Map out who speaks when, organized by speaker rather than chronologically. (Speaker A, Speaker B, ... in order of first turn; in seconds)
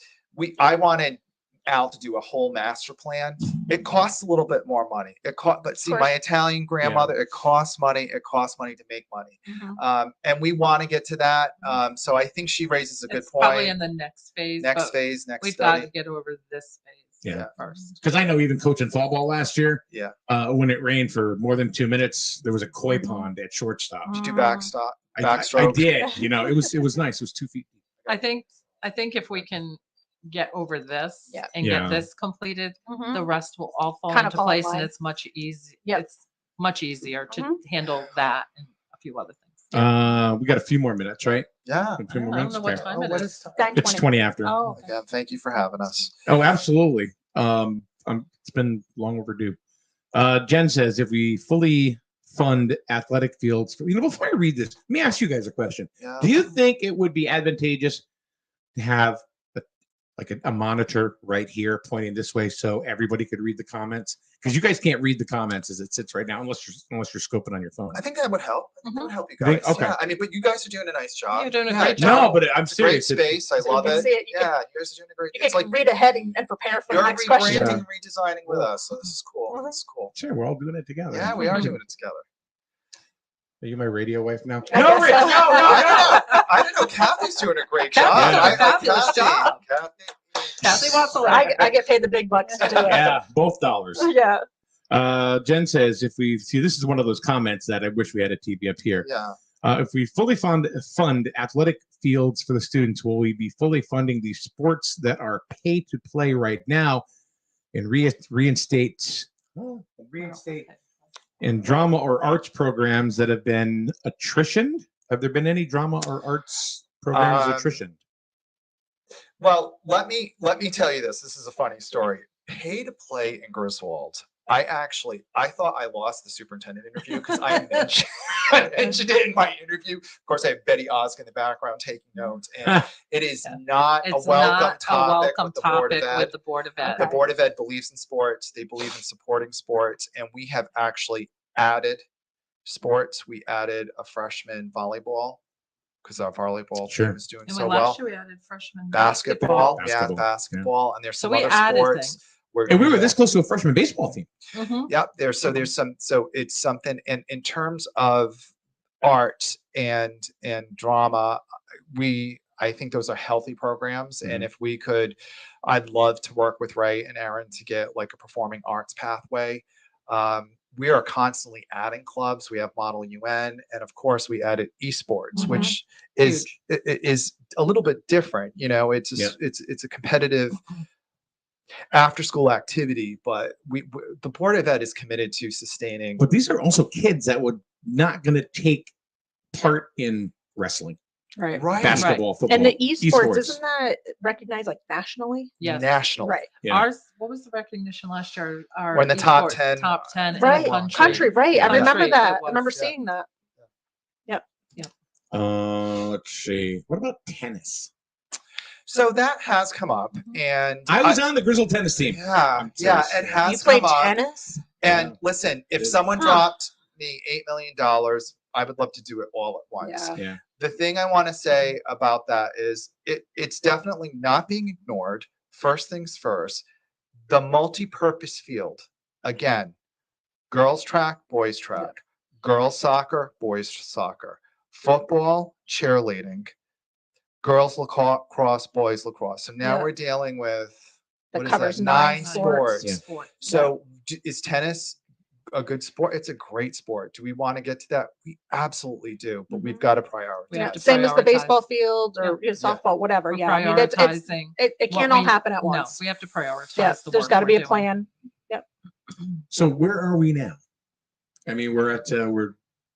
Speaker A: 0.3-13.8, 14.6-15.9, 17.2-17.5, 24.2-25.9, 41.6-42.0, 42.7-43.6, 44.7-46.1, 56.0-56.3, 67.9-76.3, 76.9-80.1, 81.1-82.2, 85.1-91.7, 92.6-93.1, 99.0-99.4, 117.1-117.8, 119.4-136.4, 136.9-142.0, 142.7-145.4, 146.0-148.0, 148.9-153.2, 154.9-158.4, 159.0-180.6, 181.9-186.2, 191.5-192.2, 195.6-196.4, 198.9-202.1, 208.9-211.3, 212.0-214.2, 214.8-226.6, 227.3-229.7, 230.5-236.5, 237.4-240.8, 241.3-245.0, 245.5-251.1
Speaker B: 5.8-6.1, 9.5-9.8, 22.9-23.3, 24.1-24.7, 32.9-33.3, 34.1-34.9, 37.3-37.6, 43.5-44.0, 73.6-74.5, 75.3-77.8, 84.7-86.5, 88.1-89.5, 91.2-93.2, 94.0-94.4, 136.8-137.2, 175.4-175.7, 191.4-191.7, 192.5-195.5, 196.2-196.5, 200.4-203.3, 213.4-214.6, 216.2-216.4, 219.8-220.2, 239.6-239.9, 241.3-242.9, 243.5-243.7, 249.5-249.8, 250.5-256.0, 256.8-258.6
Speaker C: 6.8-7.1, 17.2-17.5, 18.0-24.2, 25.1-27.8, 31.6-32.1, 39.7-42.9, 43.7-44.6, 46.3-49.6, 50.1-58.0, 58.8-59.6, 60.2-68.0, 69.4-70.0, 71.9-74.0, 77.5-77.8, 80.1-81.8, 83.6-86.3, 88.1-88.7, 92.8-94.1, 94.9-99.1, 99.6-107.0, 107.7-110.7, 111.4-118.0, 146.9-147.2, 149.4-150.7, 152.7-154.3, 186.2-188.9, 189.5-191.0, 191.8-193.6, 201.5-201.9, 205.3-207.9, 210.9-213.5, 214.8-215.2, 259.5-260.6, 261.5-262.6
Speaker D: 13.1-18.0, 28.1-39.8, 42.1-43.4, 44.5-44.8, 68.8-69.1, 71.3-72.4, 81.4-81.7, 88.0-89.6, 90.6-91.6, 110.2-110.7, 133.5-137.1, 147.5-149.8, 151.2-152.2, 154.5-154.9, 175.4-175.7, 176.2-176.5, 191.9-192.2, 195.6-196.0, 196.5-203.0, 241.9-243.4, 250.5-251.6, 253.3-257.9